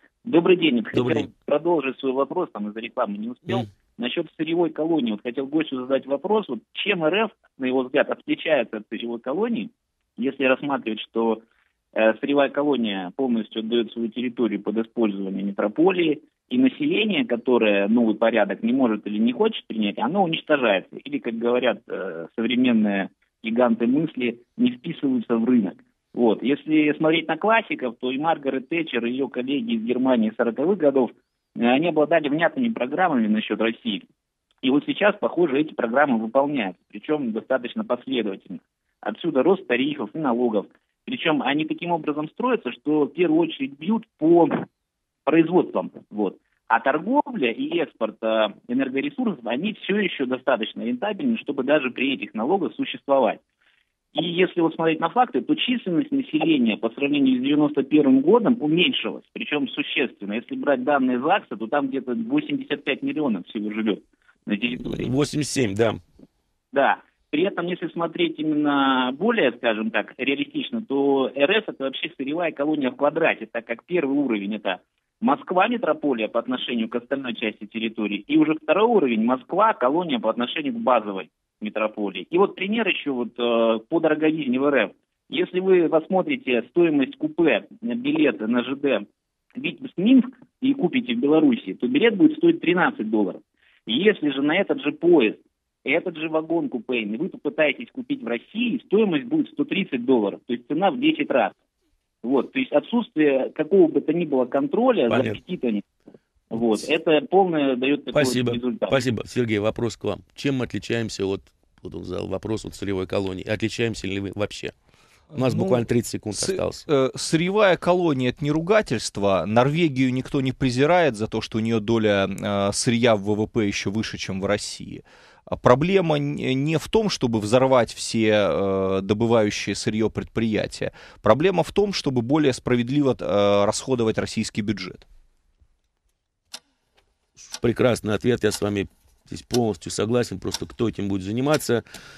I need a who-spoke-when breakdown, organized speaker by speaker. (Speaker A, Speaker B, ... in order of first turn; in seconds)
Speaker A: 0.2-11.4, 11.9-34.0, 34.6-44.6, 45.2-53.4, 54.1-65.1, 66.7-89.0, 89.6-101.5, 102.2-105.8, 106.5-109.0
Speaker B: 0.9-1.3, 64.7-66.0, 105.1-105.4, 106.5-106.8, 108.1-114.7, 115.3-116.8, 137.5-141.8
Speaker C: 115.3-135.1